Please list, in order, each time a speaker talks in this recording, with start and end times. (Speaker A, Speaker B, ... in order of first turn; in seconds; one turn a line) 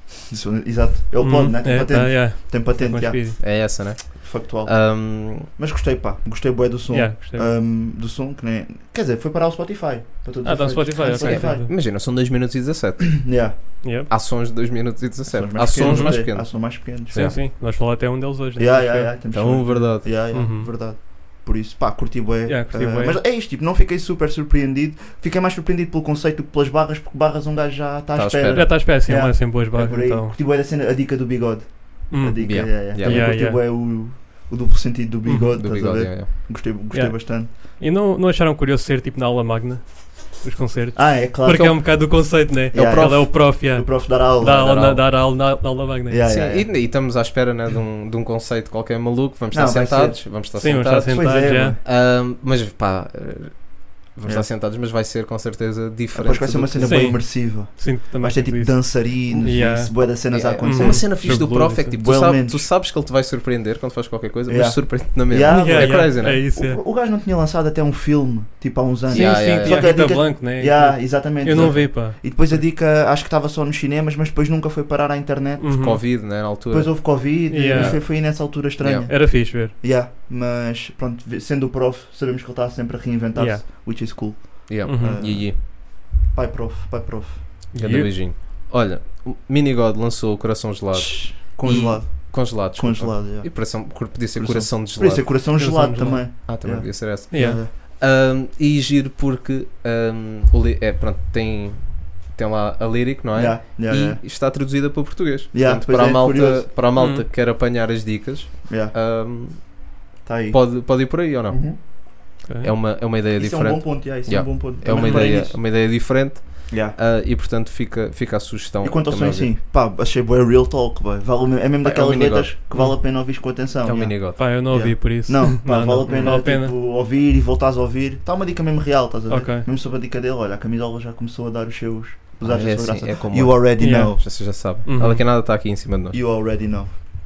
Speaker A: 0.3-3.6
Speaker B: 1.2-3.4
Speaker C: 3.4-5.5
Speaker A: 4.2-11.7
Speaker B: 6.9-7.5
Speaker B: 10.4-11.7
Speaker C: 11.2-17.4
Speaker A: 13.2-13.6
Speaker B: 13.8-14.1
Speaker A: 15.3-17.4
Speaker B: 15.8-20.7
Speaker A: 18.6-37.5
Speaker C: 19.3-20.1
Speaker B: 22.5-23.2
Speaker C: 28.1-28.8
Speaker B: 28.5-30.4
Speaker B: 32.1-33.6
Speaker C: 32.4-33.3
Speaker B: 35.3-35.5
Speaker C: 35.6-36.3
Speaker B: 36.9-46.3
Speaker A: 41.0-42.2
Speaker A: 42.7-44.9
Speaker C: 42.7-43.3
Speaker C: 44.5-45.0
Speaker A: 46.1-46.7
Speaker C: 46.2-57.1
Speaker A: 49.5-50.5
Speaker B: 50.6-51.8
Speaker A: 51.1-51.8
Speaker A: 56.1-62.7
Speaker B: 56.8-62.0
Speaker C: 60.3-66.5
Speaker A: 64.5-76.2
Speaker B: 65.5-66.8
Speaker B: 69.1-72.6
Speaker C: 69.1-70.1
Speaker C: 71.5-71.9
Speaker B: 75.6-76.0
Speaker C: 75.7-79.1
Speaker A: 76.7-87.6
Speaker B: 77.5-78.0
Speaker B: 79.1-79.7
Speaker B: 83.4-83.6
Speaker C: 84.7-85.6
Speaker B: 84.8-85.4
Speaker B: 87.7-88.1
Speaker C: 87.8-95.3
Speaker A: 91.0-97.7
Speaker B: 95.6-96.5
Speaker C: 96.5-110.0
Speaker B: 97.3-97.6
Speaker A: 103.3-104.2
Speaker A: 105.5-106.8
Speaker B: 107.0-107.2
Speaker A: 108.7-108.9
Speaker A: 110.2-111.8
Speaker C: 110.5-119.5
Speaker B: 112.4-112.7
Speaker A: 113.4-115.8
Speaker B: 115.0-115.3
Speaker A: 116.7-117.0
Speaker A: 118.8-134.2
Speaker C: 121.8-122.5
Speaker C: 123.8-124.5
Speaker B: 124.4-126.7
Speaker C: 126.1-126.4
Speaker B: 129.3-129.7
Speaker C: 132.4-136.2
Speaker B: 133.8-135.2
Speaker A: 136.1-137.0